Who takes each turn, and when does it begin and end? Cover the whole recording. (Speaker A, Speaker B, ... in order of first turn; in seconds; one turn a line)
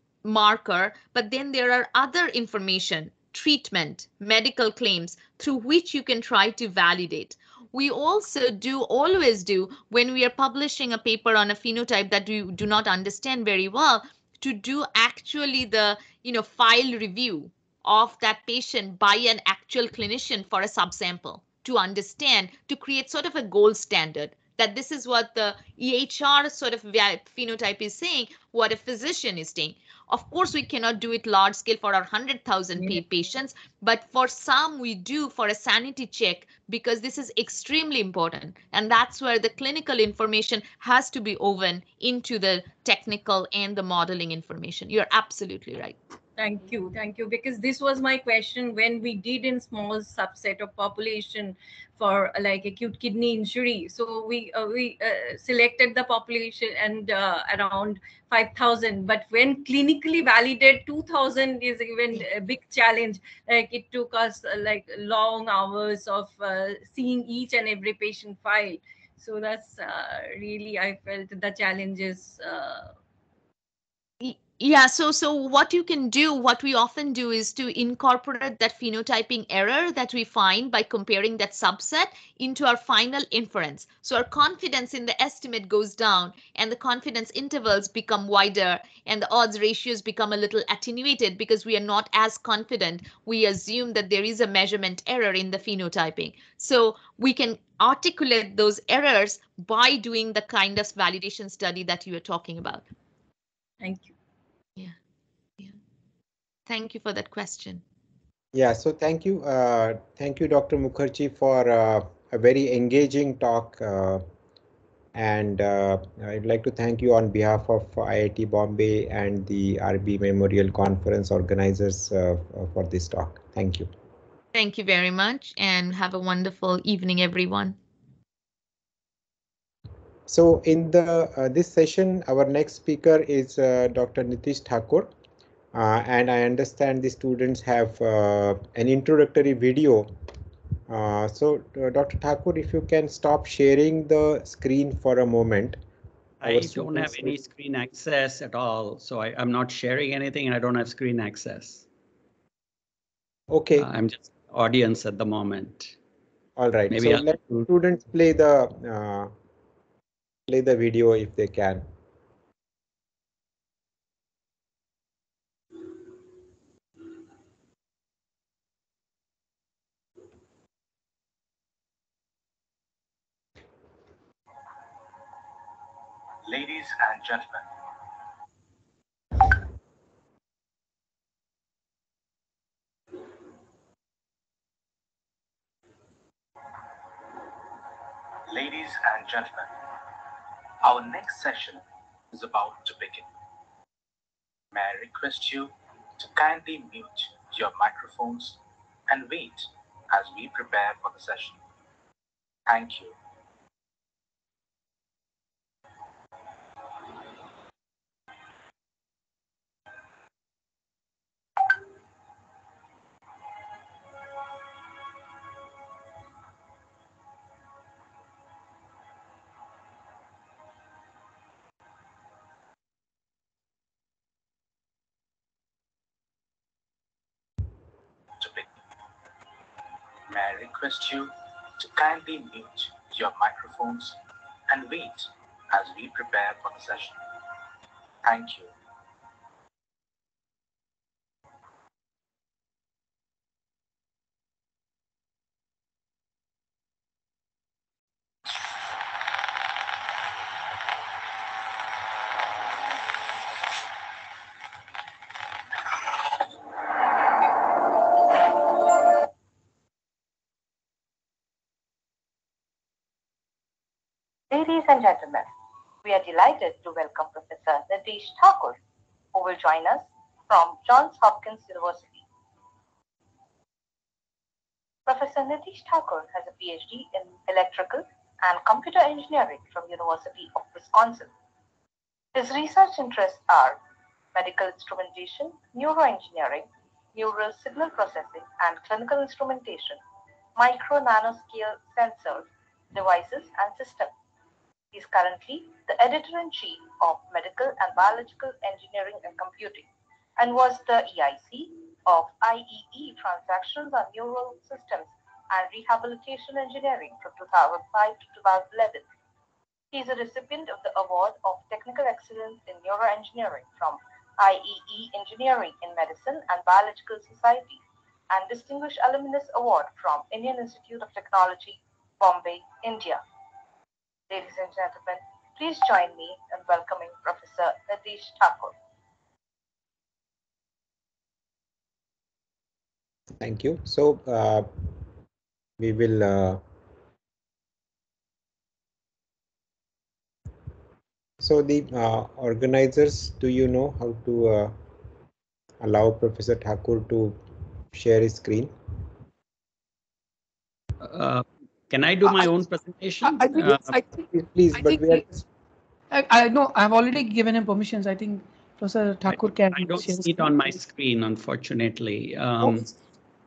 Speaker A: 0.2-46.0
Speaker B: 46.4-72.9
Speaker A: 74.2-102.8
Speaker B: 103.8-104.1
Speaker A: 106.7-107.8
Speaker C: 108.5-114.2
Speaker C: 115.1-123.9
Speaker A: 124.5-127.8
Speaker C: 130.3-135.1
Speaker C: 135.7-140.1
Speaker C: 140.9-145.8
Speaker D: 146.4-151.8
Speaker C: 146.4-147.3
Speaker C: 153.5-153.9
Speaker D: 153.8-155.9
Speaker C: 156.6-159.3
Speaker D: 156.9-157.7
Speaker C: 160.5-161.8
Speaker E: 176.4-177.7
Speaker E: 188.5-189.7
Speaker E: 190.8-193.3
Speaker E: 194.7-201.6
Speaker E: 202.7-203.1
Speaker E: 228.4-228.7
Speaker E: 230.3-237.2
Speaker E: 238.2-238.7
Speaker F: 264.5-265.5
Speaker F: 266.0-268.8
Speaker F: 269.3-272.2
Speaker F: 275.1-281.3
Speaker F: 282.3-283.8
Speaker F: 284.3-290.0
Speaker F: 290.6-294.1
Speaker F: 294.9-309.1
Speaker F: 309.9-323.2
Speaker F: 324.3-328.7
Speaker C: 333.4-334.7
Speaker C: 335.8-336.6
Speaker C: 341.4-344.7
Speaker C: 345.8-347.4
Speaker C: 347.9-348.7
Speaker D: 351.0-353.9
Speaker G: 352.2-352.5
Speaker G: 353.2-355.3
Speaker C: 354.3-355.4
Speaker G: 356.1-360.8
Speaker D: 359.3-362.9
Speaker G: 362.6-362.9